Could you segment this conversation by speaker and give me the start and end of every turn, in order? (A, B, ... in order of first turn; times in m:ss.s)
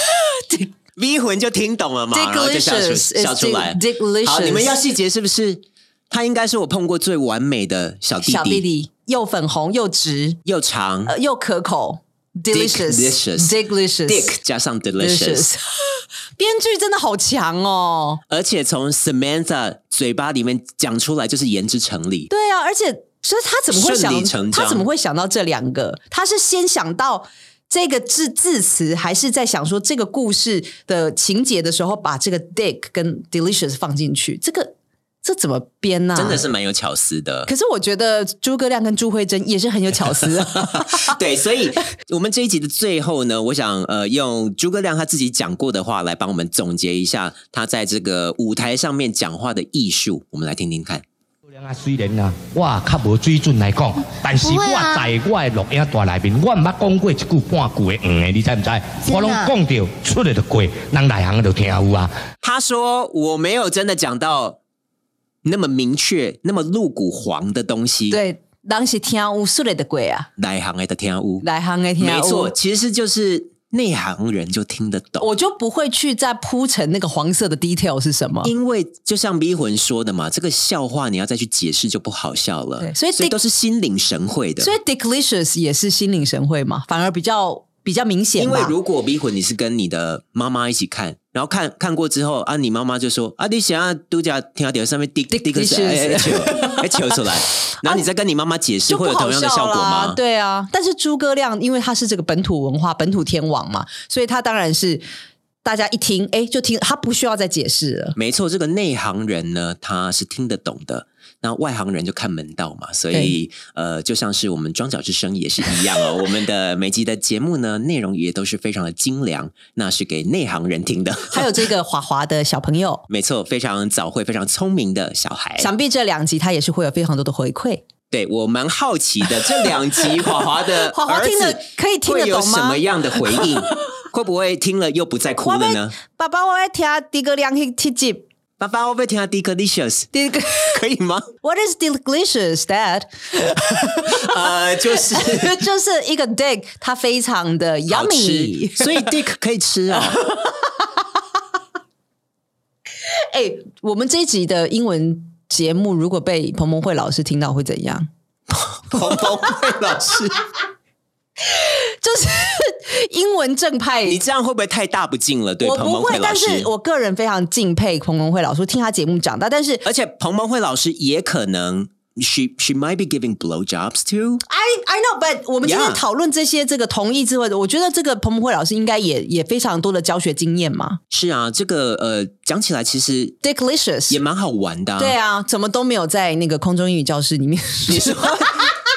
0:00.4-0:00.7 A
0:01.0-0:08.6 B
0:02.1-0:04.8 A
0:08.2-0:10.4 A
0:10.5-0:11.2 B
0:11.1-0:14.3 A
0:12.5-0:15.5 B
0:15.0-0:18.2 A
0:18.3-0:22.3 B
0:22.3-0:36.4 A
0:23.7-0:24.8 B
0:36.2-0:37.5 B
0:37.5-0:41.2 A
0:40.9-0:51.0 B
0:51.5-1:02.1 C
1:02.4-1:04.6 B
1:05.4-1:08.2 B
1:08.1-1:10.3 A
1:10.4-1:11.5 B
1:11.4-1:12.5 A
1:12.0-1:15.3 B
1:15.2-1:18.5 A
1:18.4-1:24.7 B
1:22.8-1:23.4 A
1:24.6-1:28.7 A
1:28.4-1:40.2 B
1:35.3-1:37.0 A
1:38.9-1:45.0 A
1:45.6-1:48.2 A
1:48.2-2:01.4 B
2:01.3-2:03.0 A
2:03.1-2:05.7 B
2:05.6-2:07.8 A
2:08.1-2:15.9 B
2:10.9-2:12.8 A
2:15.4-2:18.3 A
2:18.6-2:21.3 B
2:20.1-2:20.8 A
2:21.4-2:24.3 A
2:23.9-2:25.6 B
2:25.1-2:29.1 A
2:27.9-2:30.2 B
2:30.2-2:30.6 A
2:33.2-2:38.1 A
2:38.5-2:40.4 B
2:38.9-2:39.2 A
2:41.4-2:44.2 A
2:44.1-2:46.7 B
2:45.6-2:49.8 A
2:49.8-2:54.4 B
2:54.5-3:01.0 A
2:55.6-2:56.0 B
3:01.1-3:03.4 B
3:03.4-3:04.2 A
3:04.1-3:05.2 B
3:05.0-3:08.7 A
3:07.9-3:08.7 B